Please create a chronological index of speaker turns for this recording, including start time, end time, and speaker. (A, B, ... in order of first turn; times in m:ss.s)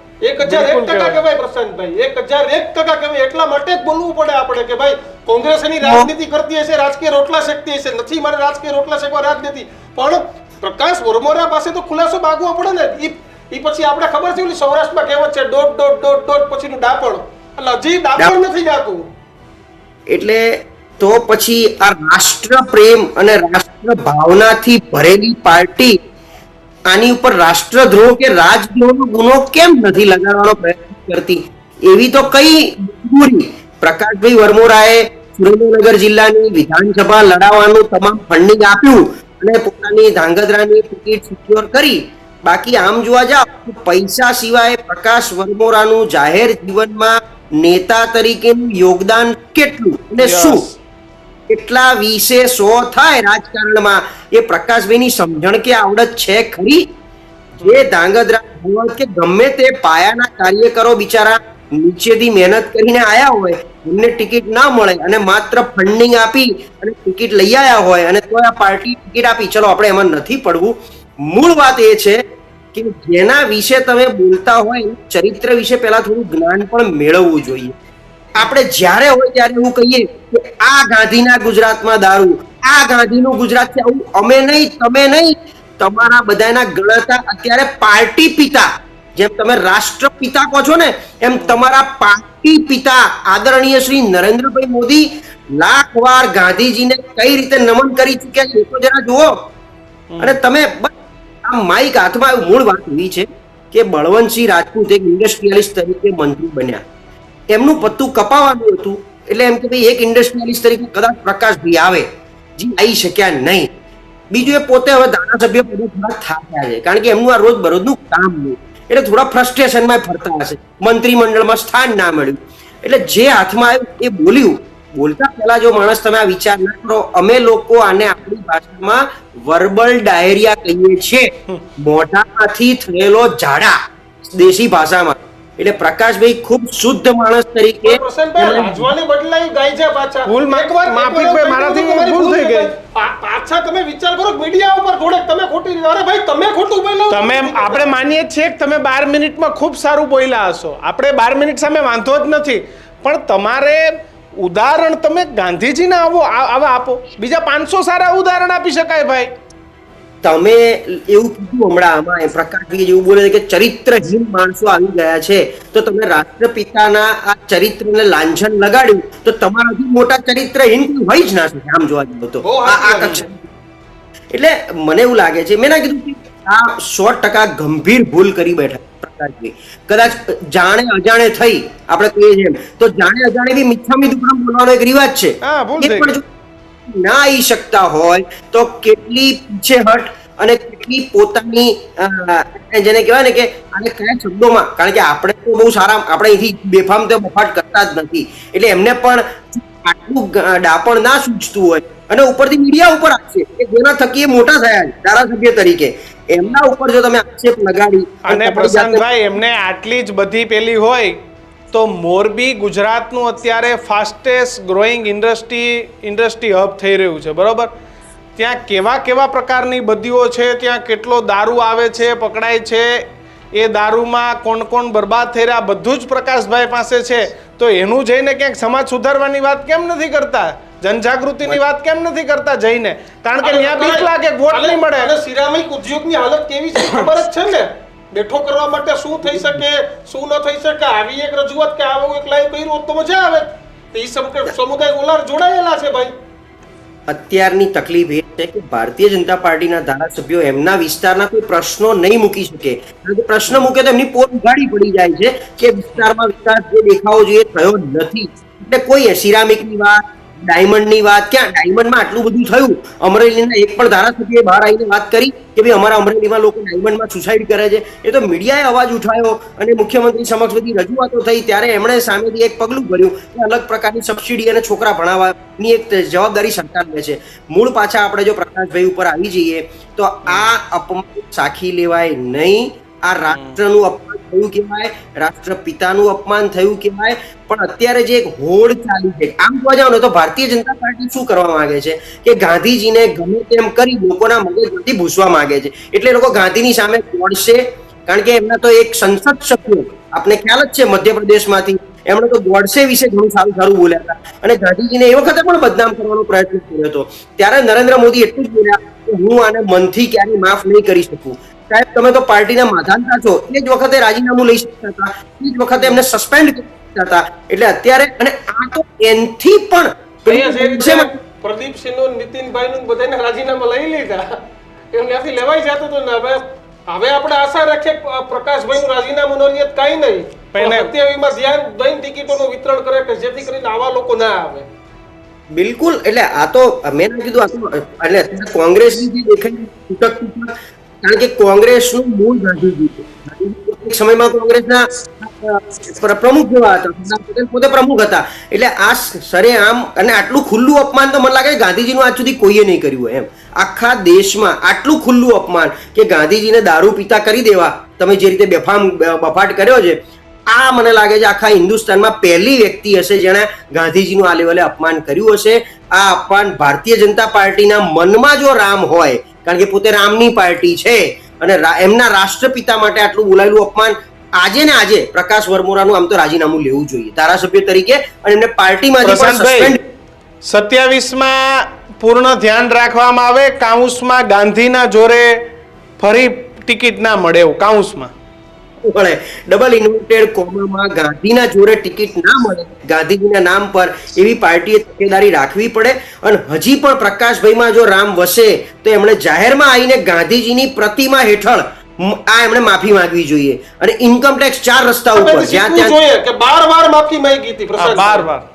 0:00.2-0:19.0 A
0:00.4-0:01.2 B
0:05.8-0:06.1 C
0:20.1-0:26.0 C
0:26.9-0:50.6 C
0:50.2-0:50.8 B
0:51.5-0:56.9 C
0:57.6-0:57.8 B
0:57.6-1:12.2 C
1:12.7-1:17.7 C
1:18.4-1:39.4 C
1:40.1-1:40.4 B
1:40.2-1:40.9 C
1:41.4-1:46.8 C
1:47.5-1:53.7 C
1:54.3-2:18.9 C
2:17.8-2:27.9 A
2:20.2-2:22.7 B
2:27.1-2:39.3 B
2:40.2-2:53.5 C
2:52.4-2:53.2 A
2:54.3-3:06.2 C
3:05.4-3:06.2 B
3:06.9-3:29.2 C
3:28.3-3:31.2 B
3:31.7-3:37.7 B
3:38.4-3:43.0 B
3:43.6-3:55.1 B
3:53.4-4:06.1 A
4:07.1-5:21.1 C
4:40.2-4:40.5 B
4:43.3-4:43.6 B
5:20.3-5:24.4 A
5:24.9-5:34.6 A
5:30.5-5:30.9 B
5:35.5-6:19.8 C
6:19.0-6:19.8 B
6:20.4-6:25.4 B
6:26.0-6:28.1 B
6:28.8-6:46.0 C
6:45.2-6:48.2 A
6:47.8-6:48.4 B